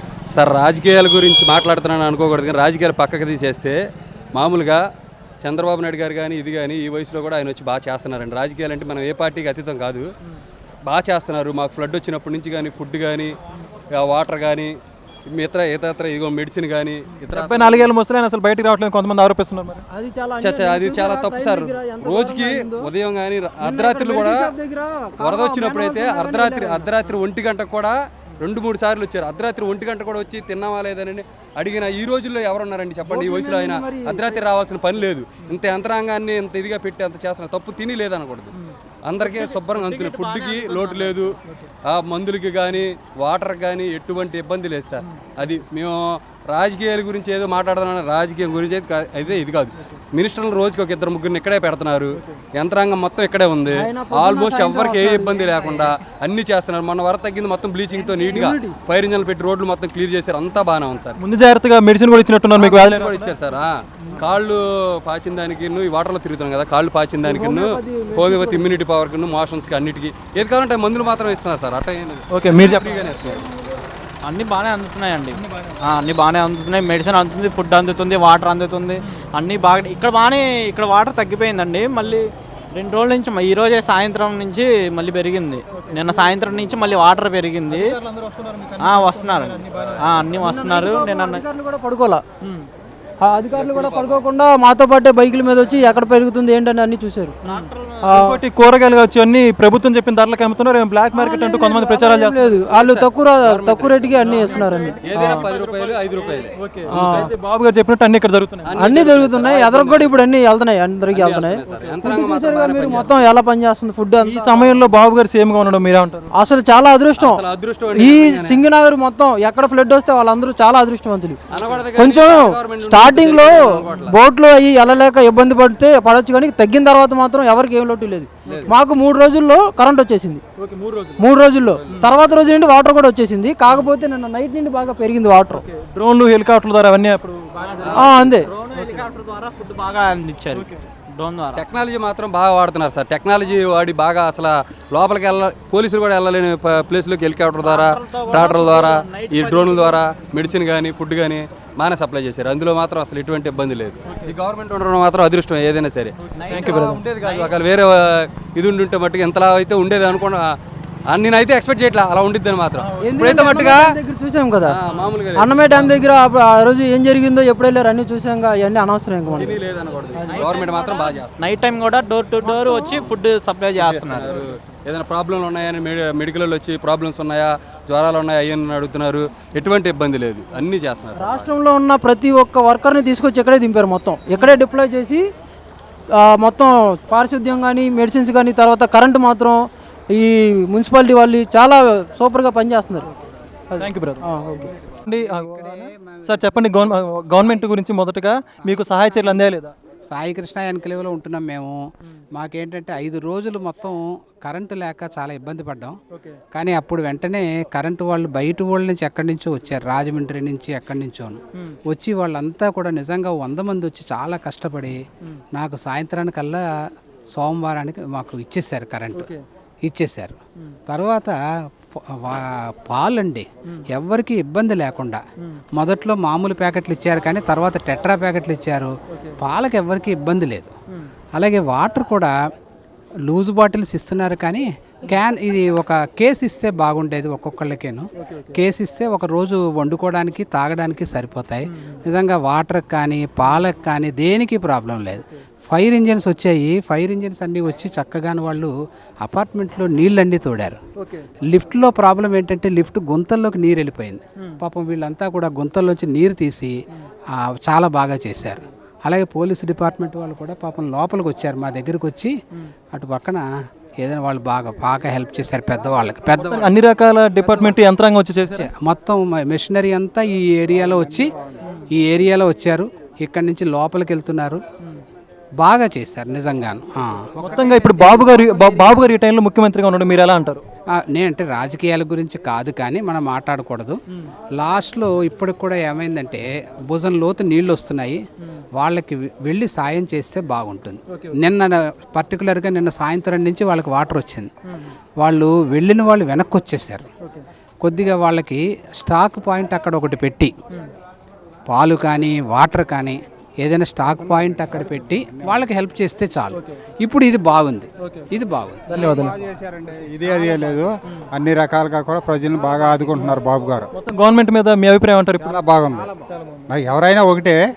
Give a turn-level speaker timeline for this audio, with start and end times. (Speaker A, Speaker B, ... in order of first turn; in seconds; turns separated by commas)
Speaker A: 0.3-3.8, Speaker A: 4.3-4.8, Speaker A: 5.4-10.1, Speaker A: 10.9-13.3, Speaker A: 13.9-14.7, Speaker A: 15.3-17.9, Speaker B: 17.3-19.9, Speaker C: 19.9-22.9, Speaker A: 20.4-24.6, Speaker C: 23.6-26.9, Speaker A: 25.2-61.2, Speaker C: 33.1-34.4, Speaker D: 39.2-41.2, Speaker C: 53.7-55.5, Speaker C: 58.2-58.8, Speaker B: 61.2-63.3, Speaker A: 62.6-73.5, Speaker C: 67.2-68.7, Speaker B: 72.3-72.9, Speaker D: 74.2-88.0, Speaker B: 75.5-75.8, Speaker B: 85.7-86.9, Speaker B: 87.7-90.3, Speaker D: 88.8-91.4, Speaker C: 90.3-92.2, Speaker C: 93.2-97.4, Speaker A: 93.5-94.2, Speaker D: 97.4-98.1, Speaker B: 97.5-102.6, Speaker C: 98.0-98.4, Speaker C: 101.2-105.4, Speaker A: 102.7-107.3, Speaker B: 104.2-105.4, Speaker D: 105.5-106.2, Speaker B: 106.6-108.8, Speaker C: 106.9-107.3, Speaker A: 108.7-110.2, Speaker C: 108.7-114.8, Speaker A: 111.1-113.3, Speaker B: 111.7-112.0, Speaker B: 114.2-116.3, Speaker C: 116.3-117.4, Speaker A: 117.2-118.7, Speaker C: 118.0-121.4, Speaker A: 121.5-124.2, Speaker C: 121.9-130.4, Speaker B: 130.6-131.3, Speaker C: 131.2-135.6, Speaker A: 131.8-132.2, Speaker B: 135.5-139.2, Speaker A: 137.8-138.2, Speaker C: 137.9-138.5, Speaker D: 138.4-141.6, Speaker B: 140.5-140.9, Speaker A: 141.5-160.4, Speaker D: 147.6-150.0, Speaker D: 156.4-157.6, Speaker B: 156.5-156.9, Speaker A: 161.1-163.9, Speaker C: 163.0-164.8, Speaker A: 164.7-166.0, Speaker C: 165.3-169.6, Speaker A: 169.3-171.5, Speaker C: 170.2-170.5, Speaker D: 170.3-174.4, Speaker C: 172.5-173.0, Speaker A: 173.8-181.5, Speaker C: 181.2-185.3, Speaker C: 186.1-193.1, Speaker C: 193.7-194.7, Speaker B: 193.8-194.3, Speaker E: 194.8-196.9, Speaker B: 195.1-199.7, Speaker E: 197.4-197.7, Speaker E: 198.6-199.4, Speaker E: 200.1-201.8, Speaker E: 202.4-206.0, Speaker E: 206.5-215.0, Speaker E: 215.6-216.6, Speaker E: 217.3-219.3, Speaker B: 219.2-219.4, Speaker E: 219.8-220.4, Speaker E: 220.9-221.4, Speaker E: 222.1-225.2, Speaker E: 225.8-230.7, Speaker E: 231.4-232.3, Speaker E: 233.3-248.7, Speaker B: 238.2-238.6, Speaker B: 241.7-242.0, Speaker E: 249.2-250.8, Speaker B: 251.0-251.3, Speaker E: 251.5-256.8, Speaker E: 257.4-262.3, Speaker E: 262.9-263.5, Speaker E: 264.0-266.7, Speaker B: 266.4-268.7, Speaker E: 268.5-271.3, Speaker E: 271.9-274.6, Speaker E: 275.6-279.0, Speaker B: 277.4-280.6, Speaker E: 281.0-284.0, Speaker E: 284.6-288.2, Speaker E: 288.8-294.5, Speaker B: 291.1-291.4, Speaker E: 295.2-297.1, Speaker E: 297.8-300.5, Speaker E: 301.7-308.9, Speaker F: 304.2-305.6, Speaker B: 308.0-308.3, Speaker B: 308.9-309.4, Speaker F: 308.9-313.9, Speaker E: 310.5-310.8, Speaker B: 312.7-313.4, Speaker B: 313.9-315.6, Speaker F: 315.4-316.1, Speaker E: 316.0-316.3, Speaker B: 316.3-316.7, Speaker F: 316.7-317.6